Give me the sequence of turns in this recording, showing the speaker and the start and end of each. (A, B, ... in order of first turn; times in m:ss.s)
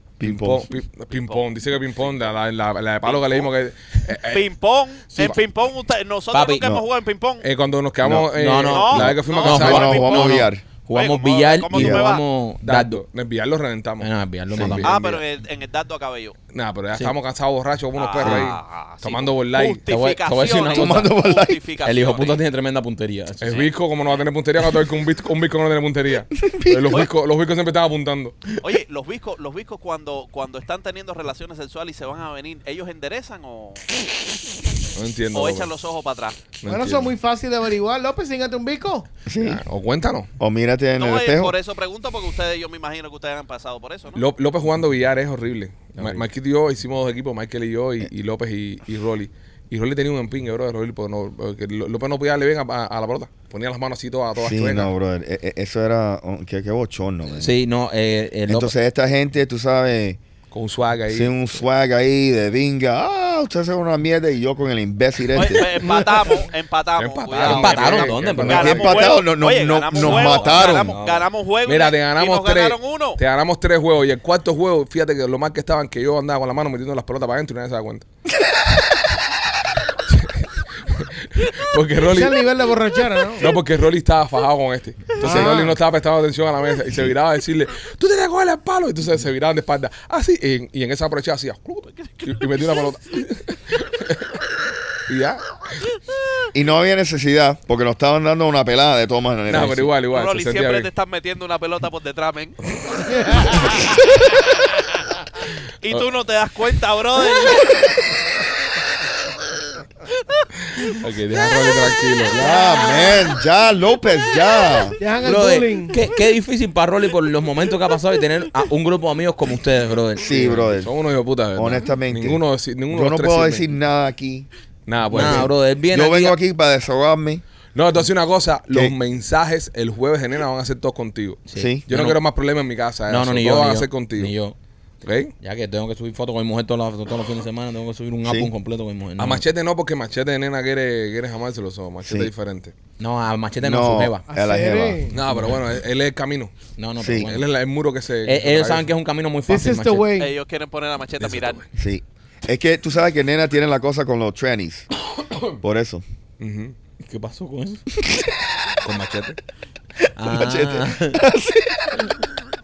0:00.2-0:00.6 A
0:00.2-0:04.5 B
0:01.1-0:01.4 C
0:03.0-0:03.5 C
0:04.1-0:07.5 C
0:06.3-0:06.7 D
0:07.4-0:10.1 B
0:08.0-0:08.3 A
0:08.3-0:13.0 D
0:08.6-0:12.2 C
0:09.1-0:10.6 A
0:11.7-0:12.1 A
0:12.6-0:15.0 B
0:14.0-0:15.2 D
0:14.5-0:14.9 A
0:14.8-0:16.4 C
0:16.5-0:19.8 B
0:18.0-0:22.4 C
0:19.9-0:21.1 D
0:20.7-0:21.6 A
0:21.8-0:23.7 D
0:23.4-0:28.5 B
0:26.4-0:27.1 A
0:28.6-0:33.9 C
0:34.9-0:35.7 B
0:35.3-0:36.5 C
0:36.6-0:37.1 B
0:36.7-0:39.1 E
0:39.2-0:39.6 A
0:39.4-0:40.3 B
0:40.4-0:41.5 A
0:41.0-0:44.2 C
0:44.2-0:54.9 B
0:46.0-0:46.2 A
0:54.4-0:57.5 A
0:57.4-0:58.7 D
0:58.5-1:00.2 A
1:00.5-1:01.6 B
1:01.1-1:05.8 A
1:05.3-1:13.2 C
1:05.8-1:06.4 E
1:07.0-1:09.1 B
1:07.4-1:08.9 D
1:08.4-1:11.0 A
1:10.0-1:11.3 D
1:11.6-1:18.0 B
1:20.1-1:22.4 B
1:22.0-1:23.4 E
1:23.4-1:34.4 B
1:25.2-1:25.8 E
1:25.2-1:25.6 A
1:32.0-1:32.3 C
1:35.1-1:35.8 B
1:36.5-1:39.9 A
1:39.5-1:40.9 B
1:40.1-1:42.6 C
1:43.0-1:43.6 B
1:45.8-1:47.9 C
1:50.8-1:52.4 B
1:52.3-1:55.0 A
1:52.4-1:53.1 E
1:55.0-1:56.0 E
1:55.2-2:00.7 D
2:00.2-2:00.9 A
2:00.7-2:03.7 B
2:01.5-2:04.5 A
2:04.9-2:05.5 B
2:05.1-2:06.4 D
2:05.1-2:07.4 A
2:07.7-2:14.3 B
2:11.5-2:12.2 D
2:11.5-2:11.8 A
2:13.1-2:14.5 D
2:15.0-2:15.3 B
2:15.4-2:19.4 D
2:18.2-2:18.5 A
2:19.2-2:22.7 B
2:22.0-2:22.3 A
2:23.0-2:24.2 D
2:23.6-2:25.0 A
2:24.3-2:25.2 E
2:25.1-2:26.5 B
2:25.3-2:25.5 D
2:26.8-2:27.4 D
2:27.0-2:27.3 A
2:27.2-2:28.9 B
2:28.2-2:30.1 D
2:29.5-2:30.3 E
2:30.2-2:31.6 C
2:31.2-2:31.6 B
2:31.8-2:34.9 A
2:35.2-2:35.5 B
2:35.6-2:36.0 A
2:36.4-2:36.8 B
2:37.0-2:37.8 D
2:38.8-2:39.4 B
2:40.2-2:41.2 D
2:40.2-2:42.0 A